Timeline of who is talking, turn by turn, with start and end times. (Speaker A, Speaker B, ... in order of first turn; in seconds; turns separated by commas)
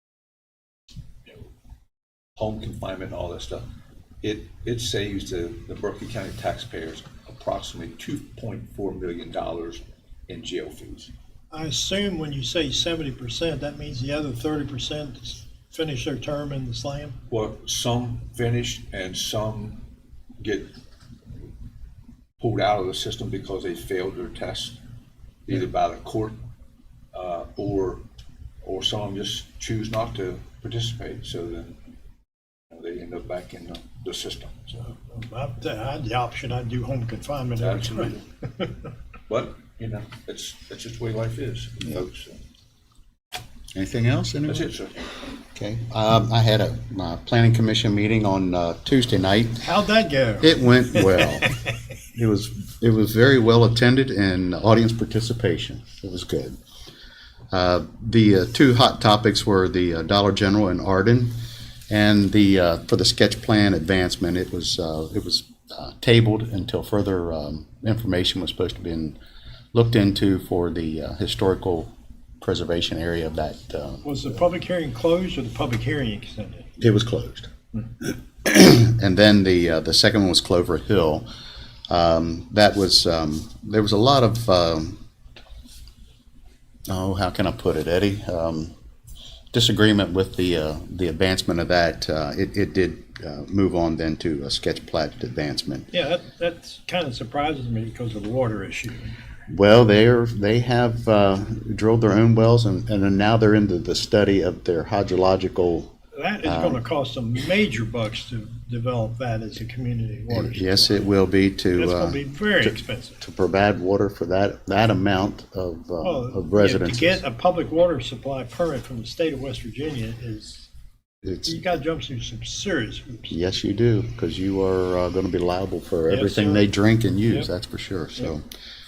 Speaker A: 2.4-3.7, Speaker A: 4.2-11.1, Speaker B: 11.5-17.1, Speaker A: 17.3-19.8, Speaker A: 20.4-20.7, Speaker A: 22.4-24.8, Speaker A: 25.4-26.4, Speaker A: 27.1-28.0, Speaker A: 28.6-31.8, Speaker A: 32.7-34.9, Speaker B: 35.0-38.7, Speaker A: 37.6-38.3, Speaker A: 39.3-42.4, Speaker C: 43.7-44.7, Speaker A: 44.5-45.0, Speaker C: 45.5-49.7, Speaker B: 49.6-51.3, Speaker C: 50.4-51.5, Speaker C: 52.1-56.6, Speaker C: 57.5-61.4, Speaker C: 61.9-69.2, Speaker C: 69.7-74.0, Speaker B: 74.0-76.7, Speaker C: 76.8-77.5, Speaker C: 78.0-81.2, Speaker C: 81.9-85.0, Speaker C: 86.9-88.7, Speaker C: 89.5-95.9, Speaker B: 95.9-99.1, Speaker C: 99.5-106.8, Speaker B: 106.1-111.0, Speaker C: 110.3-117.2, Speaker B: 111.7-113.2, Speaker B: 116.0-120.7, Speaker C: 121.2-121.6, Speaker B: 121.5-123.3, Speaker C: 123.3-128.4, Speaker B: 126.1-126.6